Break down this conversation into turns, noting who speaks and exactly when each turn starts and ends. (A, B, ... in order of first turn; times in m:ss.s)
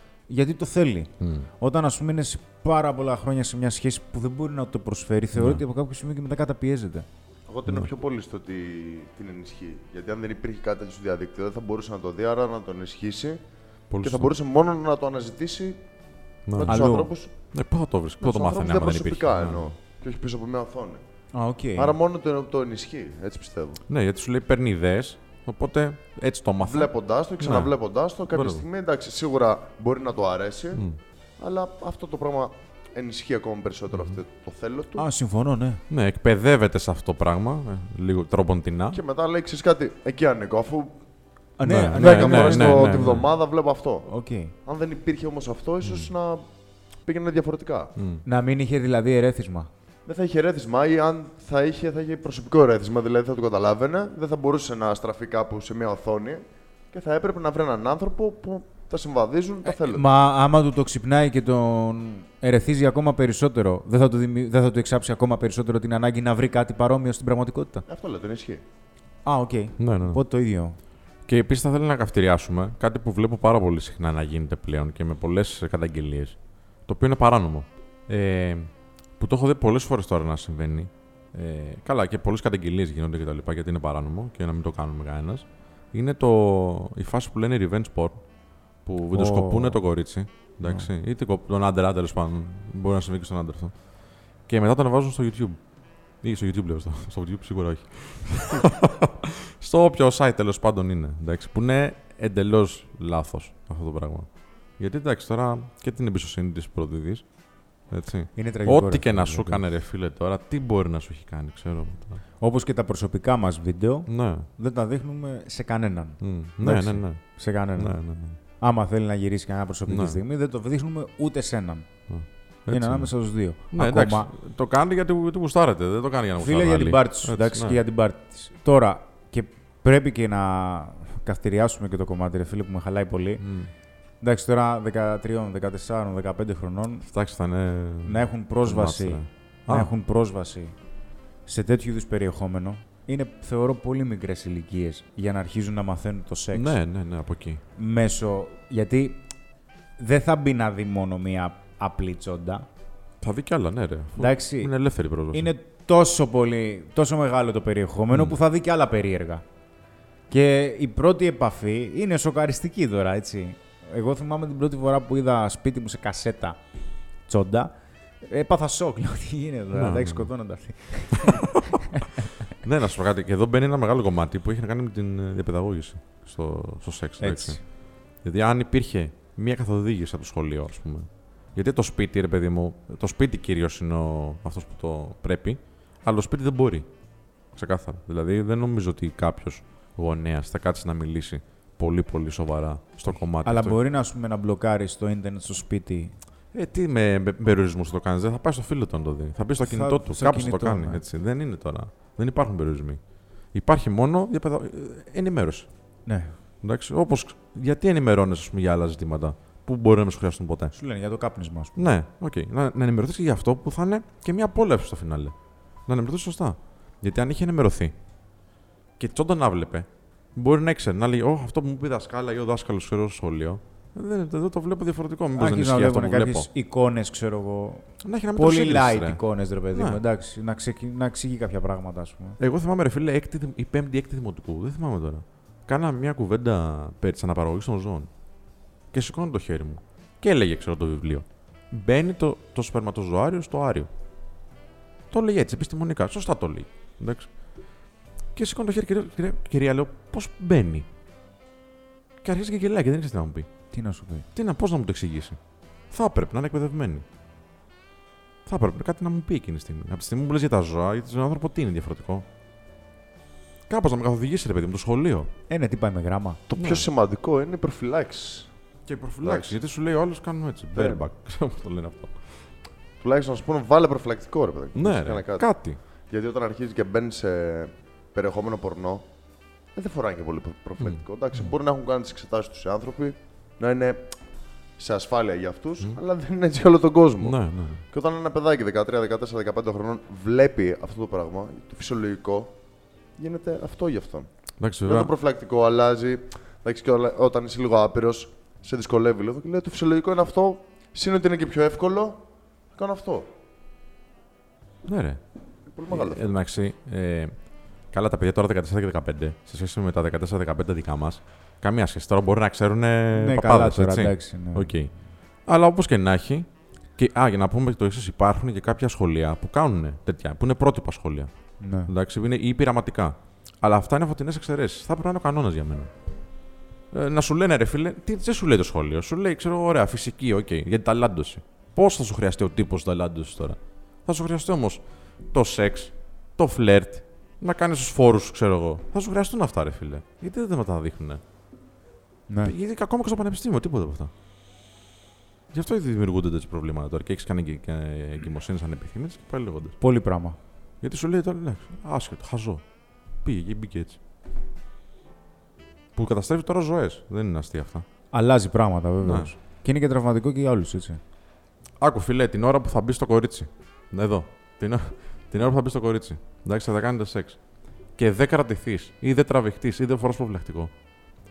0:00.3-0:07.1 A
0:01.2-0:01.5 B
0:05.3-0:05.6 B
0:07.5-0:13.4 C
0:13.9-0:14.3 B
0:14.0-0:15.8 C
0:16.5-0:17.0 B
0:16.5-0:17.3 C
0:16.7-0:17.1 A
0:17.5-0:19.7 B
0:18.2-0:21.0 C
0:21.3-0:22.0 A
0:21.8-0:23.8 C
0:23.9-0:27.7 B
0:26.6-0:30.8 C
0:28.3-0:28.6 B
0:31.4-0:35.0 C
0:33.9-0:34.2 B
0:35.0-0:35.8 A
0:35.9-0:39.0 B
0:38.9-0:41.0 C
0:41.6-0:43.1 A
0:41.6-0:43.3 B
0:41.9-0:44.1 C
0:44.1-0:44.5 A
0:44.6-0:46.4 C
0:45.8-0:46.1 B
0:47.0-0:47.9 C
0:48.0-0:48.2 B
0:48.2-0:49.7 A
0:50.0-1:00.0 C
0:59.6-1:07.8 A
1:07.9-1:08.6 C
1:09.2-1:10.8 A
1:09.8-1:10.2 B
1:11.3-1:28.2 B
1:28.8-1:33.7 B
1:29.1-1:29.8 A
1:34.4-1:35.6 B
1:36.2-1:47.2 B
1:47.9-1:52.2 B
1:48.4-1:49.6 A
1:52.4-1:57.9 A
1:54.1-1:54.5 B
1:56.2-1:57.2 B
1:57.8-1:58.4 B
1:58.6-2:01.9 A
1:59.9-2:00.2 B
2:02.1-2:03.1 B
2:02.7-2:04.3 A
2:03.7-2:07.8 B
2:06.4-2:13.4 A
2:13.4-2:13.7 B
2:14.2-2:17.0 A
2:17.0-2:19.9 B
2:18.0-2:20.7 A
2:21.4-2:26.8 A
2:26.5-2:27.6 B
2:27.8-2:29.3 A
2:30.0-2:32.7 A
2:33.2-2:35.5 B
2:34.2-2:34.7 A
2:35.3-2:39.4 A
2:38.1-2:38.4 B
2:40.3-2:46.6 A
2:47.3-2:52.2 A
2:49.7-2:50.3 B
2:51.1-2:51.6 B
2:52.6-2:57.6 B
2:57.2-2:57.6 A
2:58.2-3:06.9 B
3:07.5-3:13.8 B
3:13.4-3:16.1 A
3:16.5-3:23.0 B
3:19.6-3:21.0 A
3:23.5-3:25.7 B
3:26.0-3:26.3 A
3:26.6-3:30.7 B
3:30.7-3:31.9 A
3:31.8-3:35.3 B
3:35.8-3:37.9 B
3:39.0-3:46.5 B
3:45.4-3:52.4 A
3:48.0-3:49.2 B
3:49.7-3:50.0 B
3:52.4-3:58.1 B
3:58.9-4:03.9 B
4:05.1-4:07.3 B
4:08.3-4:10.9 B
4:12.2-4:13.5 B
4:13.7-4:14.2 A
4:14.3-4:15.4 B
4:15.9-4:17.0 B
4:18.4-4:22.2 B
4:23.7-4:25.3 B
4:25.5-4:26.4 A
4:26.5-4:28.5 C
4:26.6-4:26.9 B
4:28.9-4:32.4 B
4:29.2-4:29.6 C
4:30.7-4:31.0 C
4:33.0-4:35.5 C
4:34.7-4:35.8 B
4:36.1-4:39.0 C
4:39.7-4:44.2 C
4:40.8-4:41.5 B
4:44.8-4:52.5 C
4:47.2-4:47.8 B
4:53.2-4:54.3 C
4:54.6-4:55.1 B
4:54.8-5:02.2 C
5:02.7-5:03.3 C
5:04.8-5:05.2 B
5:05.7-5:06.3 C
5:05.9-5:07.4 B
5:07.9-5:14.9 B
5:13.1-5:14.7 A
5:15.4-5:21.3 B
5:21.6-5:21.9 A
5:21.8-5:25.9 B
5:26.9-5:41.2 B
5:42.3-5:42.5 A
5:42.4-5:44.1 B
5:45.5-5:49.8 B
5:49.8-5:50.4 A
5:50.8-5:52.6 B
5:53.2-5:54.0 B
5:55.9-5:57.8 B
5:58.1-6:01.0 A
5:59.0-5:59.3 B
6:01.8-6:07.4 B
6:08.0-6:10.7 B